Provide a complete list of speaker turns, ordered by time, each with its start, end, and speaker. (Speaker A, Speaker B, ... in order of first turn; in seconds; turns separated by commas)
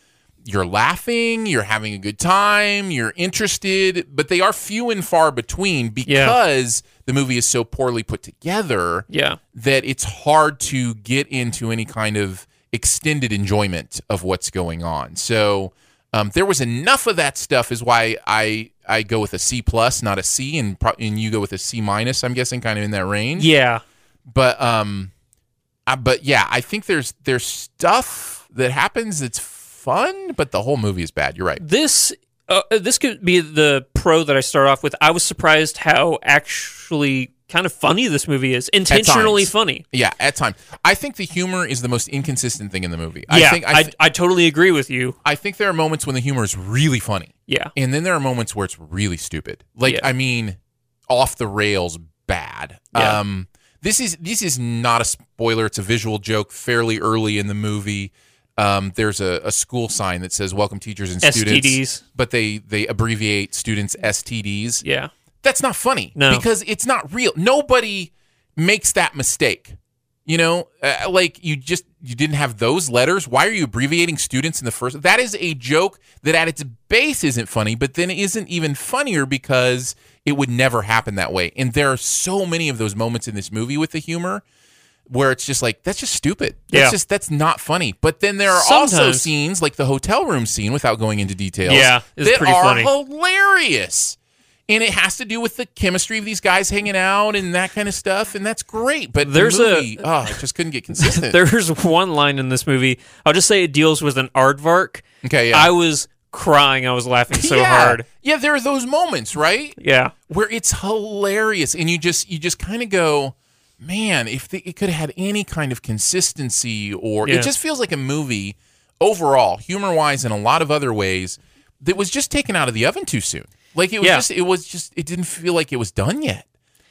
Speaker A: 0.4-23.5, Speaker B: 6.0-6.4, Speaker B: 9.1-9.4, Speaker B: 23.4-23.8, Speaker A: 24.3-25.1, Speaker A: 25.9-31.6, Speaker B: 31.6-39.8, Speaker A: 38.9-43.9, Speaker B: 43.3-45.1, Speaker A: 45.2-50.6, Speaker B: 47.5-47.7, Speaker A: 51.1-64.8, Speaker B: 52.9-53.2, Speaker B: 61.2-62.0, Speaker B: 64.8-65.1, Speaker A: 65.4-69.7, Speaker B: 66.2-66.4, Speaker A: 70.3-84.4, Speaker A: 85.1-94.2, Speaker B: 86.7-87.0, Speaker B: 88.5-89.3, Speaker B: 91.6-92.9, Speaker A: 94.7-101.4, Speaker B: 99.2-100.3, Speaker B: 100.9-108.0, Speaker A: 105.2-105.7, Speaker A: 107.3-109.8, Speaker B: 109.8-110.1, Speaker A: 110.3-126.4, Speaker B: 117.2-117.5, Speaker B: 124.0-124.2